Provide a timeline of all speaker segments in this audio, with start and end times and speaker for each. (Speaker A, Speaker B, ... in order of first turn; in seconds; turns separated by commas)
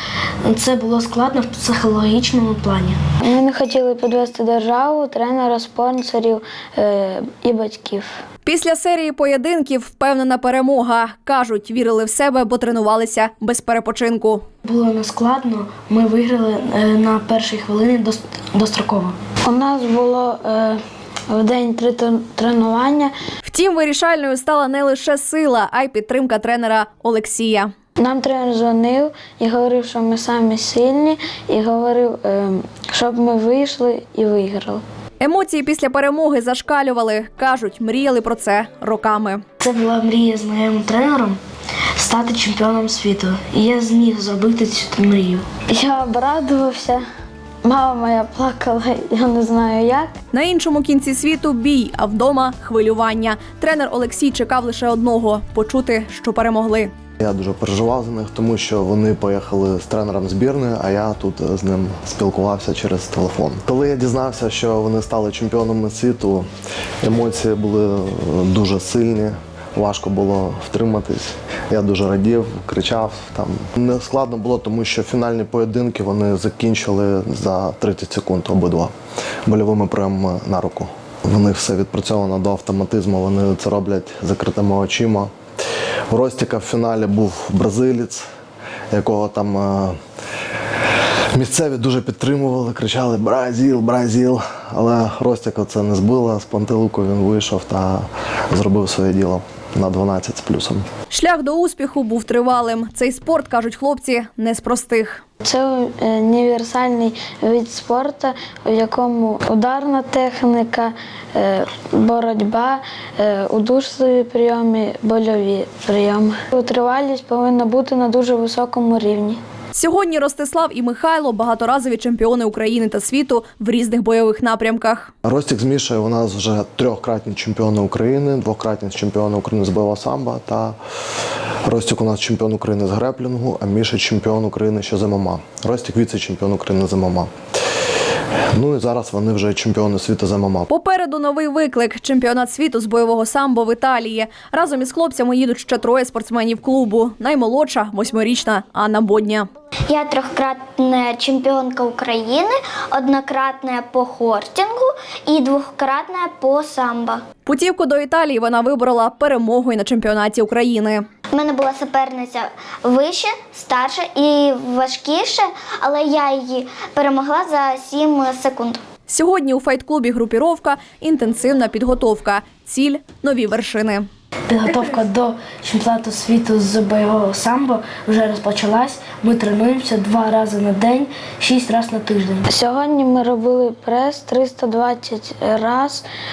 Speaker A: 0.4-3.0, Speaker B: 3.2-8.1, Speaker C: 8.4-14.4, Speaker A: 14.6-19.2, Speaker B: 19.4-23.1, Speaker C: 23.4-27.7, Speaker B: 28.0-34.8, Speaker C: 35.2-39.4, Speaker A: 39.6-41.4, Speaker A: 42.0-45.5, Speaker B: 45.7-47.0, Speaker B: 47.6-50.1, Speaker C: 50.3-56.9, Speaker D: 57.2-66.5, Speaker D: 67.0-78.9, Speaker D: 79.5-85.3, Speaker D: 86.1-88.2, Speaker D: 88.9-90.0, Speaker D: 91.3-100.8, Speaker C: 101.1-105.2, Speaker B: 105.4-119.4, Speaker C: 119.7-125.1, Speaker D: 125.2-130.8, Speaker D: 131.7-137.3, Speaker D: 138.5-140.7, Speaker C: 140.7-149.5, Speaker E: 149.9-157.2, Speaker C: 157.4-161.0, Speaker E: 161.3-168.8, Speaker C: 169.1-174.1, Speaker A: 174.5-182.4, Speaker B: 182.5-186.0